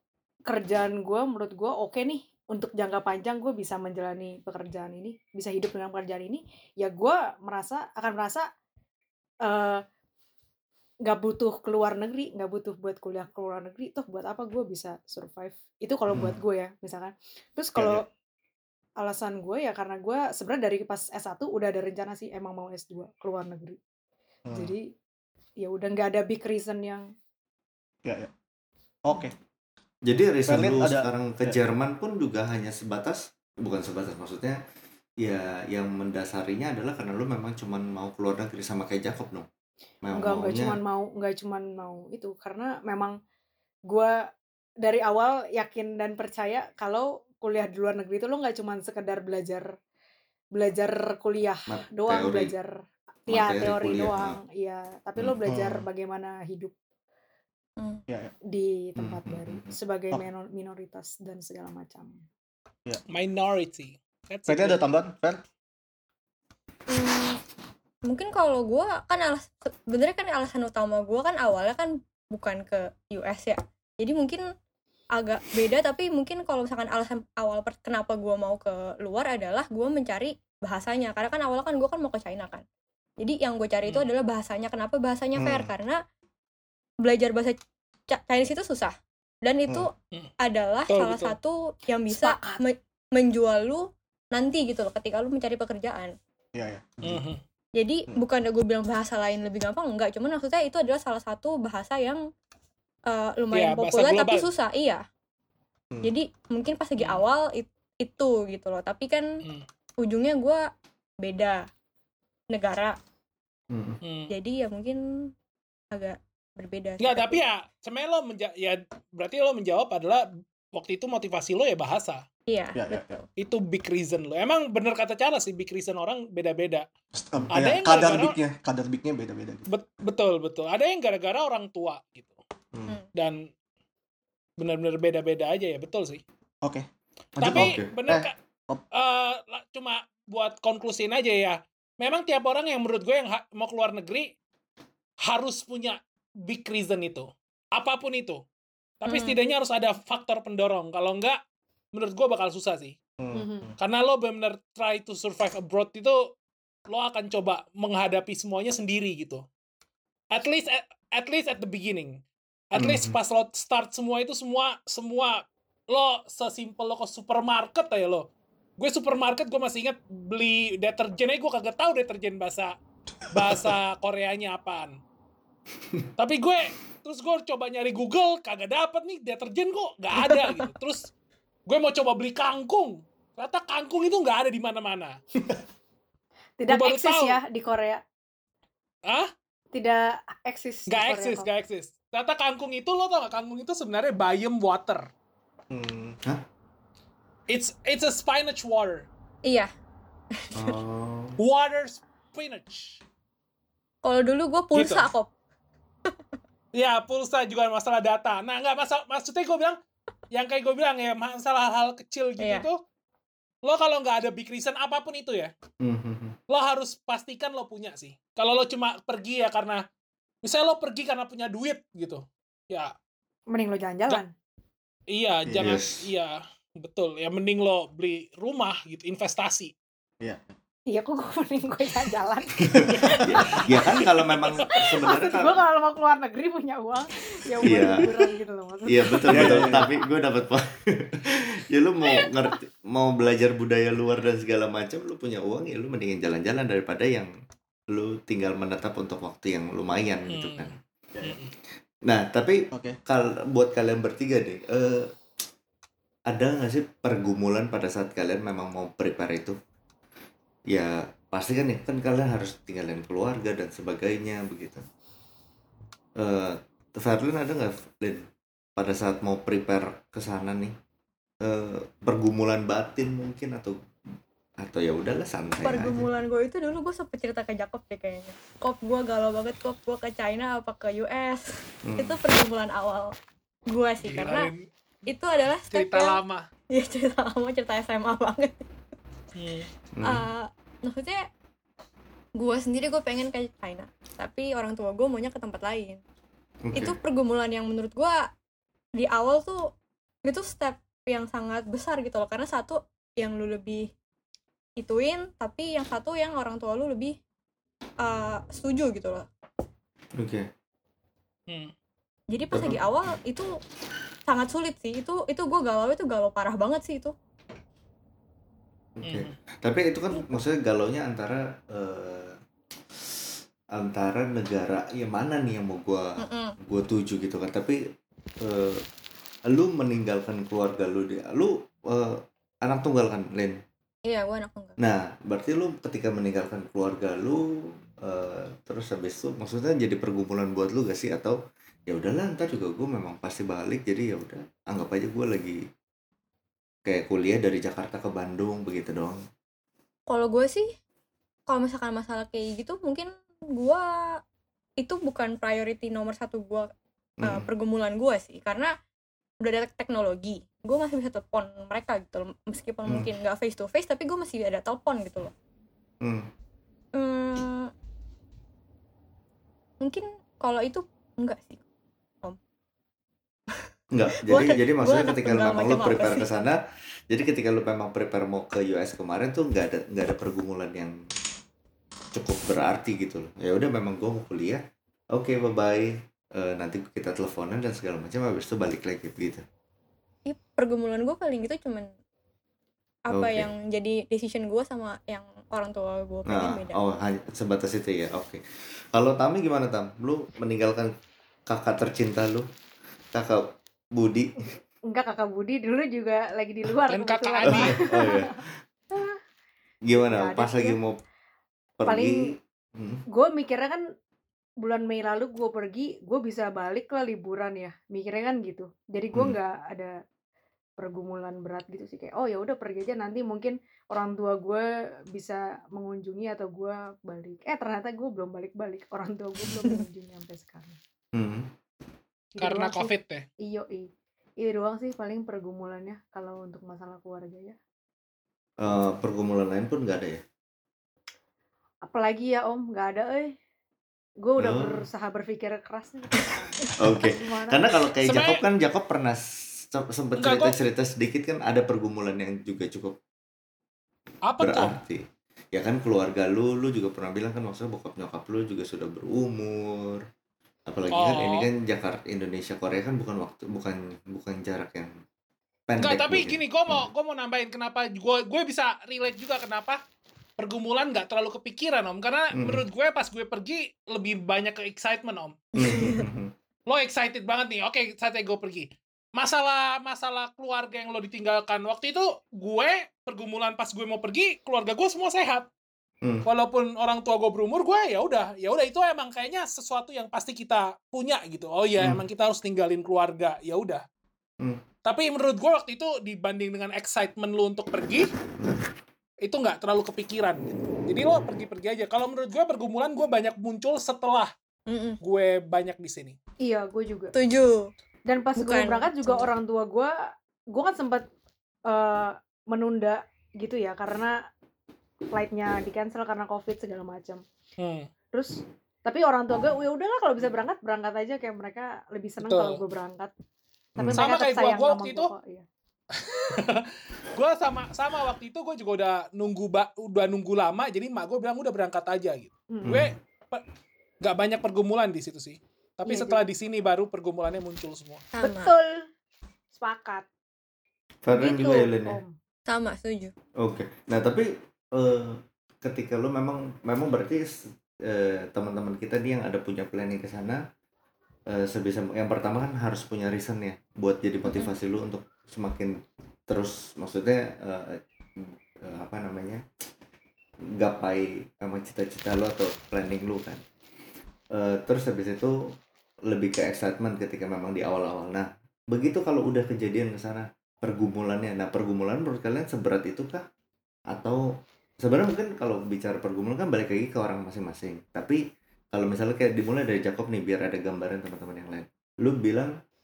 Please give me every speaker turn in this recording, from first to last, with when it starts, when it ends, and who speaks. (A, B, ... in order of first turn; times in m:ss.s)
0:00.5-0:08.5 A
0:09.4-0:09.8 A
0:11.0-0:18.0 A
0:16.1-0:16.4 B
0:19.0-0:23.8 A
0:24.5-0:24.7 C
0:24.5-0:24.9 A
0:25.6-0:27.1 A
0:28.0-0:28.3 C
0:29.0-0:29.3 C
0:30.0-0:34.6 B
0:30.4-0:31.6 C
0:35.2-0:39.5 B
0:40.0-0:40.8 B
0:40.1-0:43.2 A
0:43.9-0:44.3 A
0:44.8-0:49.7 A
0:50.5-0:52.7 A
0:51.7-0:52.5 B
0:53.2-0:56.7 A
0:53.3-0:54.4 B
0:55.2-0:55.8 B
0:58.1-0:58.3 C
0:58.5-1:02.2 A
0:59.0-0:59.7 B
1:03.1-1:04.8 D
1:04.5-1:05.4 C
1:06.9-1:07.4 E
1:08.1-1:14.4 E
1:15.1-1:22.6 E
1:23.2-1:26.0 E
1:25.4-1:25.7 C
1:27.0-1:27.6 E
1:28.1-1:29.9 E
1:30.4-1:36.1 E
1:30.9-1:31.3 D
1:32.1-1:32.6 A
1:36.5-1:37.2 C
1:37.0-1:37.4 D
1:37.8-1:42.2 E
1:43.1-1:45.0 E
1:43.5-1:44.5 D
1:46.0-1:49.2 E
1:47.0-1:47.2 D
1:50.0-1:50.6 E
1:51.2-1:51.6 E
1:52.5-1:53.0 E
1:53.7-1:54.0 B
1:54.0-1:54.3 D
1:54.3-1:55.0 E
1:55.9-1:57.4 E
1:57.0-2:02.2 D
2:02.5-2:03.3 E
2:02.7-2:03.1 C
2:03.4-2:06.8 D
2:07.1-2:09.6 C
2:07.5-2:08.4 D
2:09.7-2:12.3 D
2:13.1-2:13.4 D
2:14.6-2:16.2 D
2:16.6-2:18.8 C
2:17.4-2:18.3 D
2:17.5-2:17.9 B
2:18.9-2:24.3 D
2:25.2-2:28.4 D
2:29.0-2:31.4 D
2:29.1-2:29.4 E
2:31.9-2:33.0 D
2:33.2-2:33.8 C
2:33.3-2:33.7 A
2:33.8-2:36.3 D
2:36.9-2:39.4 D
2:40.3-2:42.2 D
2:42.7-2:52.8 D
2:42.8-2:43.1 B
2:53.3-2:55.0 D
2:56.2-3:01.1 D
3:01.7-3:05.2 D
3:06.6-3:08.0 A
3:06.7-3:07.4 D
3:09.7-3:11.5 A
3:10.9-3:15.1 D
3:15.7-3:16.2 C
3:17.5-3:19.1 D
3:19.4-3:19.7 E
3:20.5-3:21.4 B
3:21.4-3:23.0 D
3:24.0-3:25.3 E
3:24.7-3:25.1 D
3:26.7-3:29.8 D
3:30.3-3:32.8 D
3:32.4-3:32.6 E
3:33.6-3:35.5 D
3:35.8-3:36.4 B
3:36.5-3:39.8 D
3:40.4-3:42.9 D
3:43.5-3:44.3 A
3:45.1-3:49.7 D
3:45.4-3:45.8 C
3:45.6-3:46.1 B
3:50.2-3:50.5 C
3:50.9-3:53.8 A
3:52.8-3:55.6 B
3:54.7-3:59.9 A
3:57.6-3:58.1 B
3:58.8-4:07.3 B
3:59.3-3:59.9 C
4:07.9-4:10.8 B
4:10.3-4:11.5 D
4:12.0-4:15.1 B
4:12.7-4:13.0 C
4:16.3-4:19.6 B
4:20.7-4:24.8 B
4:26.2-4:30.7 B
4:31.4-4:33.8 B
4:34.6-4:36.1 B
4:35.6-4:43.1 E
4:41.9-4:42.2 B
4:43.7-4:44.5 E
4:44.0-4:44.6 D
4:45.1-4:46.2 E
4:45.7-4:46.4 D
4:46.7-4:48.7 E
4:49.4-4:49.7 D
4:49.9-4:50.3 B
4:50.0-4:51.2 E
4:52.3-4:56.0 E
4:56.6-4:56.9 B
4:56.8-4:58.3 E
4:59.0-4:59.7 E
5:00.2-5:03.9 E
5:04.8-5:07.2 E
5:08.0-5:09.2 E
5:10.2-5:10.5 B
5:12.3-5:13.5 E
5:12.5-5:12.8 B
5:14.3-5:17.1 E
5:19.0-5:22.4 B
5:19.0-5:19.3 D
5:23.7-5:27.8 B
5:26.2-5:26.5 E
5:28.4-5:28.8 B
5:29.5-5:33.6 B
5:34.0-5:34.8 E
5:34.8-5:45.6 B
5:46.8-5:49.2 B
5:50.1-5:50.7 E
5:51.5-5:53.8 E
5:54.8-5:56.7 E
5:57.2-5:57.5 B
5:57.2-5:58.7 E
5:59.4-6:05.3 E
6:06.0-6:06.3 B
6:06.9-6:07.7 E
6:09.8-6:11.6 E
6:13.9-6:16.6 B
6:14.3-6:16.2 E
6:17.1-6:21.0 B
6:22.1-6:29.4 B
6:30.3-6:31.9 E
6:33.1-6:36.8 E
6:33.1-6:33.5 B
6:36.3-6:38.4 B
6:38.9-6:40.9 B
6:41.5-6:42.4 B
6:43.1-6:44.4 B
6:44.8-6:48.4 A
6:46.9-6:47.8 D
6:47.4-6:48.6 B
6:48.9-6:49.2 A
6:49.9-6:51.0 B
6:49.9-6:50.8 A
6:51.8-6:53.0 B
6:51.8-6:52.3 A
6:53.1-6:53.8 A
6:54.6-7:00.0 A
7:00.8-7:10.8 A
7:11.1-7:11.5 B
7:12.4-7:17.6 A
7:12.4-7:13.2 D
7:18.6-7:20.2 B
7:21.8-7:23.4 A
7:24.2-7:27.6 A
7:24.4-7:24.8 B
7:26.7-7:33.0 B
7:28.0-7:28.4 D
7:30.2-7:30.6 D
7:34.3-7:34.7 D
7:34.4-7:40.0 B
7:40.7-7:44.9 B
7:40.9-7:41.5 D
7:45.7-7:46.8 B
7:45.8-7:49.8 D
7:50.4-7:55.8 D
7:52.3-7:52.6 B
7:55.6-7:56.3 B
7:55.7-7:56.0 E
7:56.7-8:05.5 D
8:06.2-8:13.8 D
8:11.8-8:12.0 B
8:14.8-8:18.1 D
8:19.2-8:24.3 D
8:24.7-8:25.0 E
8:25.0-8:26.2 D
8:26.4-8:27.1 A
8:27.1-8:27.7 E
8:28.0-8:31.1 A
8:28.4-8:29.3 E
8:31.6-8:34.3 A
8:35.1-8:37.2 A
8:37.6-8:37.9 D
8:38.1-8:43.1 A
8:42.2-8:42.6 D
8:43.8-8:45.4 A
8:43.8-8:44.1 B
8:44.0-8:45.1 D
8:45.9-8:53.4 D
8:52.5-8:52.8 A
8:52.6-8:53.0 B
8:54.0-8:58.0 D
8:55.8-8:56.2 A
8:58.1-8:58.5 E
8:58.2-8:58.9 A
8:59.5-9:00.0 A
9:01.0-9:02.0 B
9:01.1-9:02.2 A
9:02.5-9:03.1 E
9:03.4-9:10.4 B
9:11.3-9:19.4 B
9:20.6-9:23.4 B
9:24.3-9:33.3 B
9:33.9-9:38.2 B
9:38.7-9:42.6 B